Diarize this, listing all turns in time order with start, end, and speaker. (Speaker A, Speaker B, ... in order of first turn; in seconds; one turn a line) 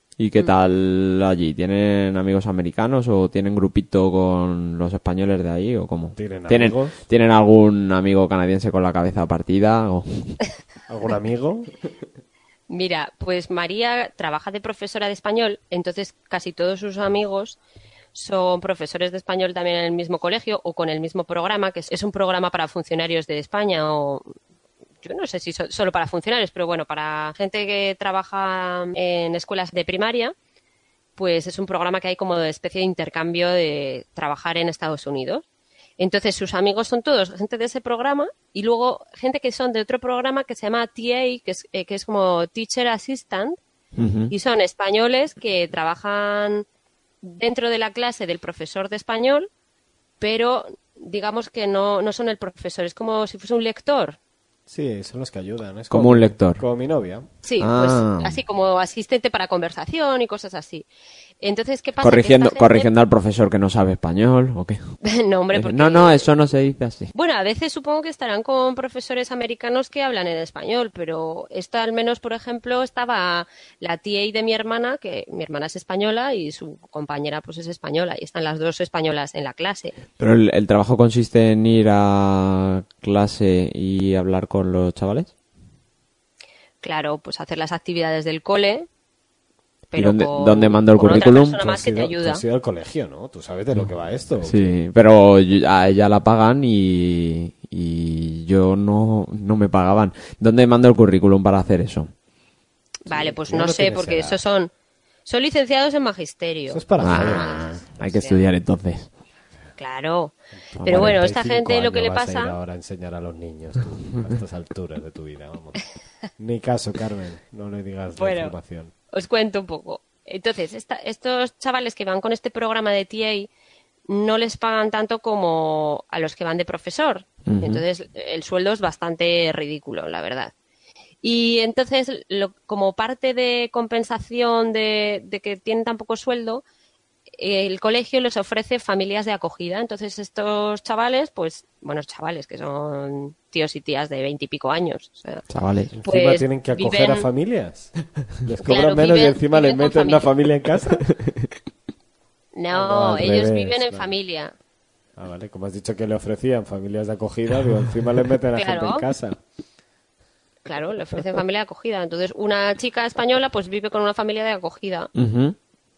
Speaker A: 0.2-10.4
Speaker B: 6.1-7.0
Speaker B: 10.9-11.7
Speaker C: 12.7-17.6
Speaker C: 18.1-24.2
Speaker C: 25.0-30.3
Speaker C: 31.2-35.4
Speaker C: 36.0-43.6
Speaker A: 44.0-44.3
Speaker C: 44.3-46.6
Speaker C: 47.2-49.5
Speaker C: 50.2-54.2
Speaker B: 54.7-57.2
Speaker A: 55.9-56.6
Speaker C: 57.4-60.9
Speaker A: 57.6-58.4
Speaker C: 61.4-62.9
Speaker A: 62.0-64.8
Speaker C: 65.0-66.3
Speaker A: 65.5-67.1
Speaker C: 67.1-80.0
Speaker A: 80.2-85.3
Speaker C: 86.8-88.9
Speaker C: 89.9-92.4
Speaker A: 90.0-91.6
Speaker B: 91.1-94.7
Speaker A: 94.4-102.1
Speaker B: 103.1-104.4
Speaker C: 103.1-104.7
Speaker C: 105.2-108.4
Speaker B: 106.7-107.8
Speaker A: 107.0-109.1
Speaker C: 109.8-112.5
Speaker B: 110.7-115.8
Speaker A: 110.8-111.2
Speaker B: 116.4-118.9
Speaker C: 118.2-118.5
Speaker C: 119.1-123.5
Speaker C: 124.1-130.5
Speaker A: 127.5-127.8
Speaker C: 131.2-136.6
Speaker C: 137.4-145.4
Speaker A: 145.5-145.9
Speaker B: 145.9-151.0
Speaker C: 146.1-147.3
Speaker C: 148.6-150.3
Speaker C: 152.6-154.5
Speaker B: 152.7-154.1
Speaker B: 155.2-159.4
Speaker C: 158.5-159.1
Speaker C: 160.7-165.1
Speaker A: 165.1-165.6